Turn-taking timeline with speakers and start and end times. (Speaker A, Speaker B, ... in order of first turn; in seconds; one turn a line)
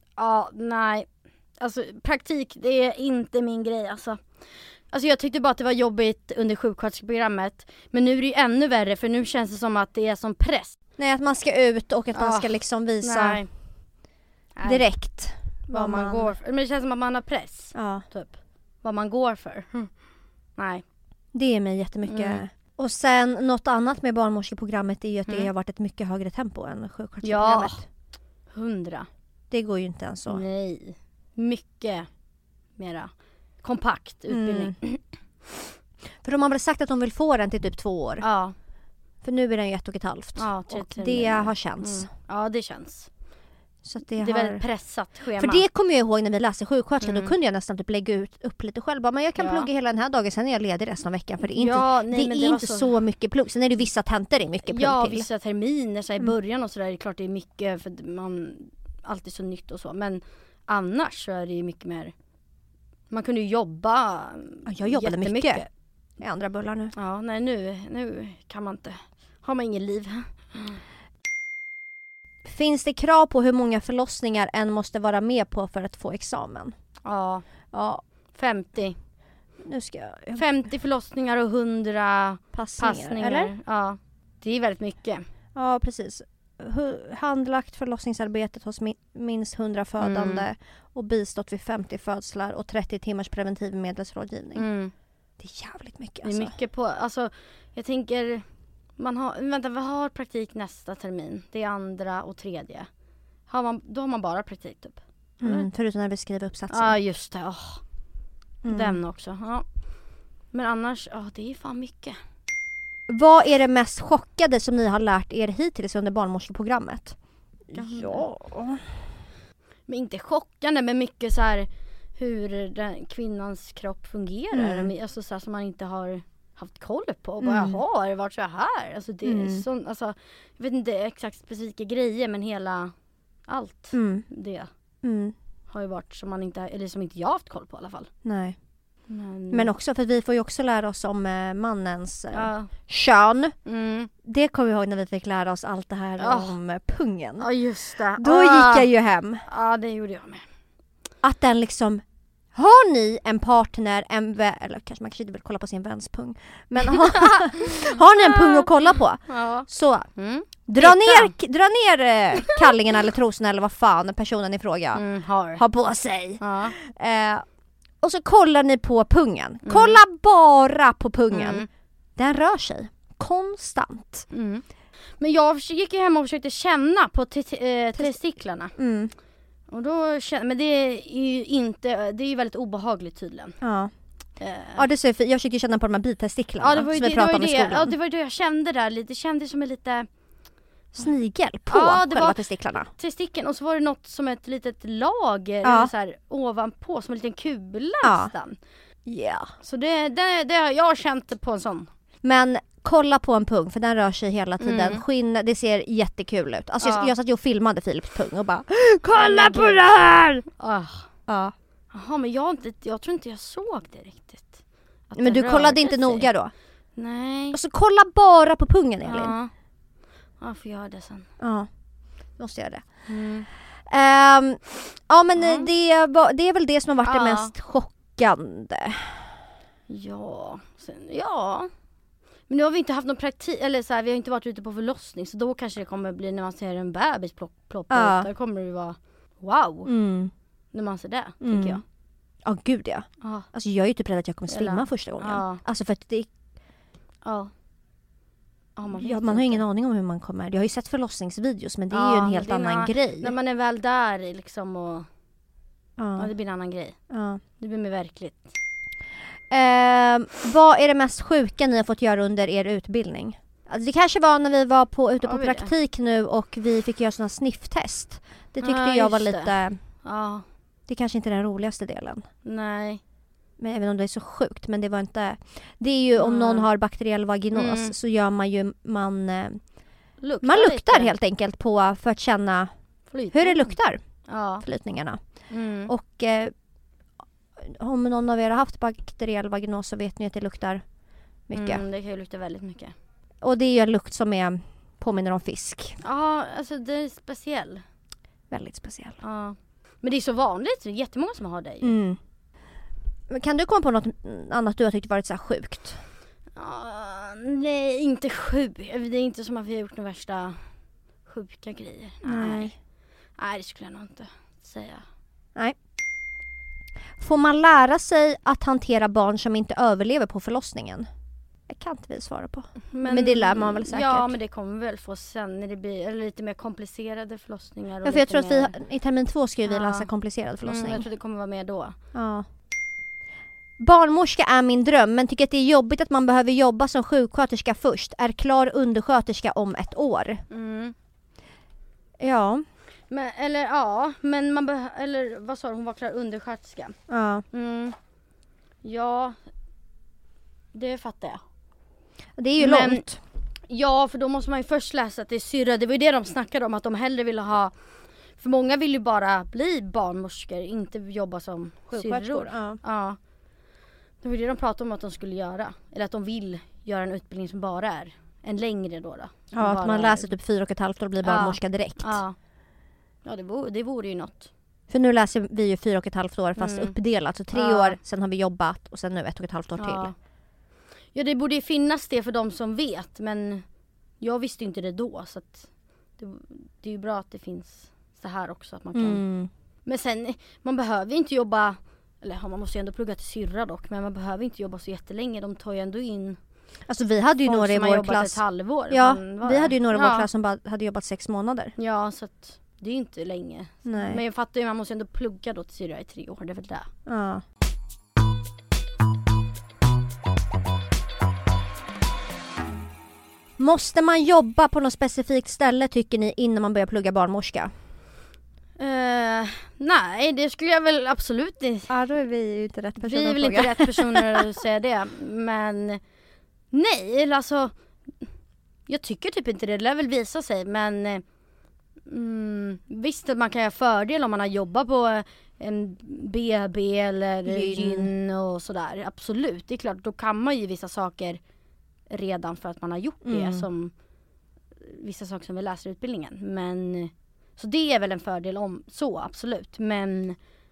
Speaker A: 0.2-1.1
Speaker A: 1.6-4.2
Speaker A: 4.9-10.8
Speaker B: 11.0-13.4
Speaker A: 12.1-13.5
Speaker A: 14.6-14.8
Speaker B: 14.7-16.3
Speaker A: 15.7-19.9
Speaker B: 17.8-18.0
Speaker A: 20.6-20.8
Speaker B: 21.3-27.8
Speaker A: 22.1-22.4
Speaker A: 27.2-27.8
Speaker A: 28.5-29.1
Speaker B: 29.5-30.4
Speaker A: 30.3-32.1
Speaker A: 32.8-33.1
Speaker A: 33.6-35.0
Speaker B: 34.3-34.8
Speaker B: 36.2-38.2
Speaker A: 38.2-38.5
Speaker B: 39.2-42.1
Speaker A: 40.4-43.1
Speaker B: 43.8-44.6
Speaker A: 44.2-45.6
Speaker B: 45.4-55.3
Speaker A: 47.0-47.3
Speaker A: 49.4-49.7
Speaker A: 51.4-52.9
Speaker A: 54.7-62.1
Speaker A: 63.1-65.7
Speaker B: 64.7-65.6
Speaker B: 66.2-66.9
Speaker A: 67.0-70.8
Speaker B: 72.5-76.7
Speaker A: 77.0-77.4
Speaker B: 77.7-78.0
Speaker A: 78.3-79.0
Speaker B: 79.6-80.5
Speaker A: 80.3-85.2
Speaker B: 82.5-83.5
Speaker B: 85.5-94.7
Speaker A: 90.0-90.5
Speaker A: 94.6-94.9
Speaker B: 95.4-96.5
Speaker A: 96.2-98.4
Speaker A: 99.0-102.9
Speaker A: 103.5-105.7
Speaker B: 105.4-107.0
Speaker A: 106.7-107.8
Speaker B: 108.6-109.0
Speaker A: 108.7-109.7
Speaker A: 110.5-112.2
Speaker B: 113.1-117.2
Speaker B: 117.7-118.8
Speaker A: 117.7-118.3
Speaker A: 119.9-132.9
Speaker B: 124.5-124.9
Speaker B: 127.4-127.8
Speaker B: 129.2-129.7
Speaker A: 133.5-134.7
Speaker B: 133.9-134.2
Speaker B: 135.0-135.3
Speaker A: 135.7-138.1
Speaker B: 138.2-138.6
Speaker A: 139.1-139.7
Speaker B: 139.5-143.5
Speaker A: 142.3-142.7
Speaker A: 143.7-144.1
Speaker B: 144.2-147.5
Speaker A: 146.2-146.5
Speaker A: 147.4-148.9
Speaker B: 148.2-149.4
Speaker A: 149.5-150.4
Speaker B: 151.2-152.0
Speaker B: 152.5-160.1
Speaker A: 156.9-158.7
Speaker A: 159.3-161.3
Speaker B: 160.7-165.0
Speaker A: 164.9-165.6
Speaker B: 165.6-167.4
Speaker A: 166.4-166.8
Speaker B: 168.0-171.6
Speaker A: 169.7-170.0
Speaker A: 171.3-171.7
Speaker B: 172.2-174.3
Speaker A: 174.3-174.6
Speaker A: 175.2-178.8
Speaker B: 178.8-179.1
Speaker A: 179.7-183.6
Speaker B: 183.6-183.9
Speaker A: 184.4-184.8
Speaker B: 184.8-187.9
Speaker A: 186.6-190.1
Speaker B: 190.9-192.9
Speaker A: 191.7-198.6
Speaker B: 195.6-195.9
Speaker B: 198.0-198.3
Speaker B: 199.1-199.5
Speaker A: 199.6-201.9
Speaker B: 202.2-210.4
Speaker A: 204.6-205.0
Speaker A: 206.8-207.1
Speaker A: 209.1-209.8
Speaker A: 210.5-211.1
Speaker B: 211.3-211.5
Speaker A: 211.9-216.3
Speaker B: 215.2-216.5
Speaker A: 217.0-217.6
Speaker B: 217.5-219.3
Speaker A: 219.0-219.5
Speaker A: 220.4-221.3
Speaker B: 221.4-221.7
Speaker B: 222.4-222.9
Speaker A: 223.1-223.5
Speaker B: 223.9-229.3
Speaker A: 225.4-225.7
Speaker A: 227.0-227.5
Speaker A: 229.9-231.7
Speaker A: 232.5-239.9
Speaker B: 237.9-238.3
Speaker B: 239.9-240.3
Speaker A: 240.7-241.8
Speaker B: 241.4-241.8
Speaker B: 242.4-246.3
Speaker A: 243.2-243.5
Speaker A: 244.5-245.6
Speaker A: 247.2-247.5
Speaker A: 248.8-249.6
Speaker B: 248.9-253.3
Speaker A: 251.9-255.1
Speaker B: 256.0-256.3
Speaker A: 256.2-257.0
Speaker B: 257.1-257.4
Speaker A: 257.6-258.5
Speaker B: 259.5-269.8
Speaker A: 265.2-265.7
Speaker A: 268.6-270.4
Speaker B: 270.9-272.2
Speaker A: 272.4-273.0
Speaker B: 273.6-279.6
Speaker A: 276.2-276.7
Speaker A: 277.5-277.9
Speaker A: 280.2-281.1
Speaker B: 280.4-282.7
Speaker A: 283.1-283.7
Speaker B: 283.3-284.0
Speaker A: 284.3-284.6
Speaker B: 284.6-285.2
Speaker A: 285.5-285.9
Speaker B: 285.9-286.5
Speaker B: 287.6-290.8
Speaker B: 291.5-291.8
Speaker A: 291.5-292.9
Speaker B: 293.4-296.0
Speaker A: 296.0-297.8
Speaker B: 298.5-299.2
Speaker A: 299.2-302.0
Speaker B: 301.8-302.2
Speaker B: 303.3-306.0
Speaker A: 306.6-310.6
Speaker A: 311.3-312.7
Speaker B: 312.3-312.7
Speaker A: 313.4-315.0
Speaker B: 317.2-321.1
Speaker B: 321.7-324.3
Speaker A: 322.9-328.8
Speaker B: 328.1-331.1
Speaker A: 329.7-330.1
Speaker A: 330.7-332.0
Speaker B: 332.1-332.4
Speaker B: 333.8-340.4
Speaker A: 340.5-340.9
Speaker B: 342.2-342.6
Speaker A: 343.1-347.0
Speaker B: 347.1-347.4
Speaker A: 347.5-347.9
Speaker A: 348.8-349.4
Speaker A: 350.7-351.4
Speaker B: 352.4-353.2
Speaker A: 352.6-353.0
Speaker A: 353.7-357.7
Speaker A: 358.4-363.2
Speaker B: 361.9-362.8
Speaker A: 364.2-370.3
Speaker B: 369.5-372.2
Speaker A: 371.2-372.4
Speaker A: 373.2-374.5
Speaker B: 374.9-380.1
Speaker A: 376.6-376.9
Speaker A: 377.5-378.0
Speaker A: 379.8-380.1
Speaker A: 381.1-383.6
Speaker A: 384.2-389.2
Speaker B: 388.9-389.5
Speaker A: 389.9-396.4
Speaker B: 396.9-401.7
Speaker A: 397.4-400.3
Speaker A: 401.8-406.9
Speaker B: 403.9-404.2
Speaker B: 407.1-407.4
Speaker B: 413.6-417.7
Speaker A: 418.8-421.9
Speaker B: 421.9-424.5
Speaker A: 423.0-426.0
Speaker A: 426.7-427.7
Speaker A: 428.9-431.2
Speaker A: 432.1-441.4
Speaker B: 437.5-438.1
Speaker A: 442.1-443.9
Speaker B: 443.2-443.6
Speaker A: 444.8-450.4